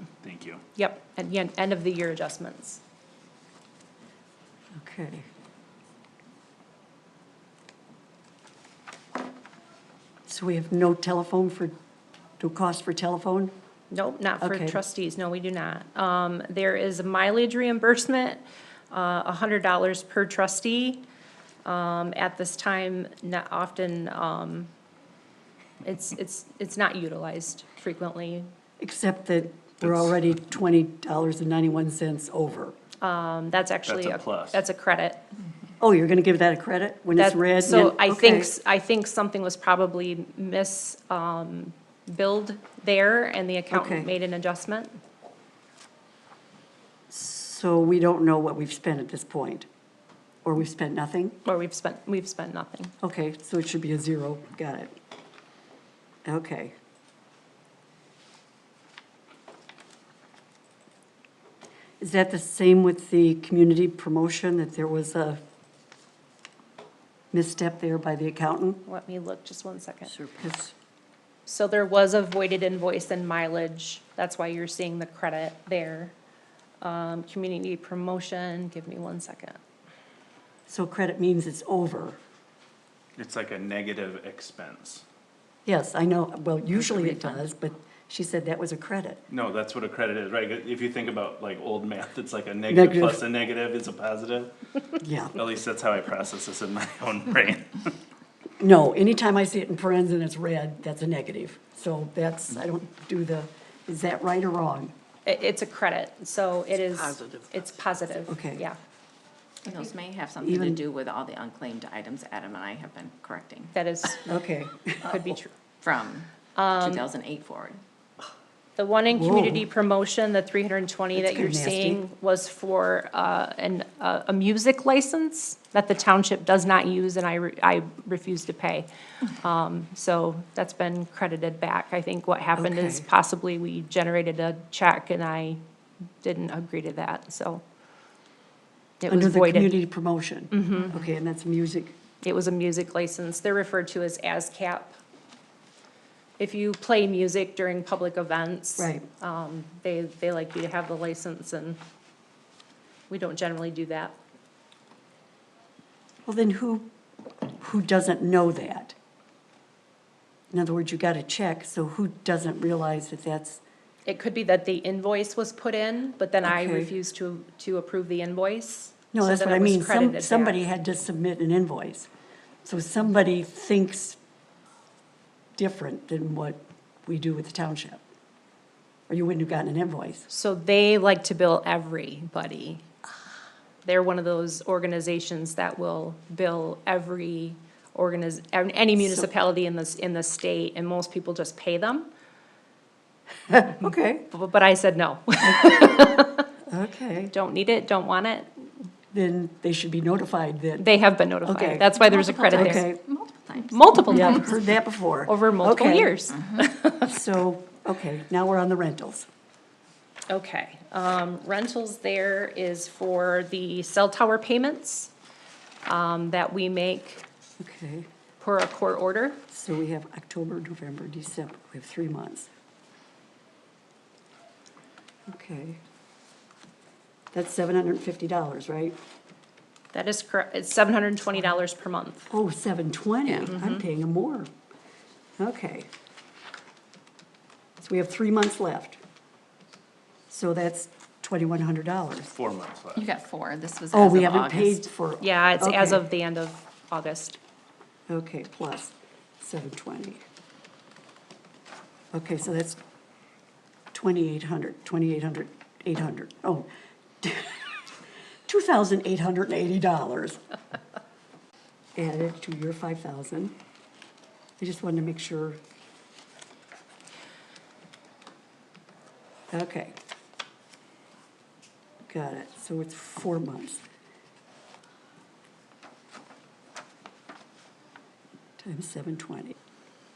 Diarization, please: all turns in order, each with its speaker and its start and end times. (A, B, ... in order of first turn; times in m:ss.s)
0:00.2-0:00.6 A
0:00.8-0:02.8 B
0:04.7-0:05.2 C
0:10.3-0:11.7 C
0:12.4-0:13.5 C
0:13.9-0:21.0 B
0:14.4-0:14.8 C
0:21.6-0:24.7 B
0:25.8-0:28.5 B
0:28.8-0:32.8 C
0:29.8-0:30.2 A
0:33.0-0:35.2 B
0:33.9-0:34.6 A
0:35.8-0:38.5 C
0:37.2-0:45.0 B
0:43.7-0:44.1 C
0:47.1-0:49.7 C
0:50.4-0:51.4 C
0:51.4-0:52.9 B
0:53.0-0:54.9 C
0:56.2-0:56.7 C
1:02.0-1:05.4 C
1:07.3-1:08.8 C
1:08.8-1:10.2 B
1:10.2-1:10.7 C
1:11.5-1:16.1 B
1:16.8-1:19.6 B
1:20.7-1:22.2 C
1:23.2-1:25.0 A
1:25.6-1:29.2 C
1:26.7-1:27.4 D
1:29.3-1:34.7 A
1:32.7-1:33.2 C
1:35.0-1:35.4 C
1:35.4-1:38.0 A
1:38.6-1:44.9 C
1:45.2-1:48.8 B
1:48.3-1:48.6 C
1:49.6-1:53.7 D
1:50.4-1:50.8 C
1:53.7-1:54.3 B
1:54.3-1:55.4 C
1:55.0-1:55.6 B
1:55.8-1:57.8 D
1:56.6-1:57.1 B
1:58.8-2:15.6 B
1:59.1-1:59.7 C
2:01.2-2:02.0 C
2:12.6-2:13.1 C
2:16.2-2:17.6 B
2:19.0-2:19.8 B
2:19.1-2:22.0 C
2:20.5-2:21.0 B
2:22.2-2:25.0 B
2:26.4-2:31.8 B
2:28.8-2:29.1 C
2:33.1-2:34.2 B
2:36.3-2:36.9 C
2:37.6-2:39.0 C
2:40.5-2:43.6 C
2:44.1-2:50.6 B
2:46.4-2:46.9 C
2:49.1-2:52.1 C
2:52.6-2:54.2 C
2:55.6-2:58.0 C
2:59.1-3:00.3 C
3:00.3-3:02.9 B
3:03.8-3:12.1 B
3:09.0-3:09.3 C
3:13.5-3:14.2 C
3:14.3-3:16.5 B
3:15.4-3:17.3 C
3:17.3-3:18.8 B
3:19.1-3:20.9 C
3:20.8-3:22.9 B
3:21.4-3:21.9 C
3:21.9-3:24.4 D
3:22.5-3:23.0 C
3:23.6-3:24.6 B
3:24.1-3:26.2 C
3:25.3-3:27.1 B
3:27.0-3:29.3 C
3:30.3-3:35.1 B
3:35.8-3:37.2 B
3:37.6-3:38.1 C
3:38.4-3:39.4 B
3:39.5-3:42.5 C
3:45.3-3:45.8 C
3:47.3-3:49.0 C
3:49.9-3:52.3 B
3:52.3-3:54.5 C
3:53.5-3:53.8 B
3:55.4-3:55.9 C
3:57.8-3:59.0 C
4:00.3-4:02.3 C
4:02.4-4:03.1 A
4:03.0-4:04.8 D
4:03.9-4:06.1 C
4:05.2-4:07.4 B
4:08.1-4:10.2 C
4:12.1-4:12.8 C
4:13.9-4:16.7 C
4:17.2-4:17.8 C
4:18.5-4:20.4 C
4:22.0-4:23.6 C
4:24.6-4:25.6 C
4:29.5-4:30.0 C
4:32.1-4:33.8 C
4:38.6-4:39.6 C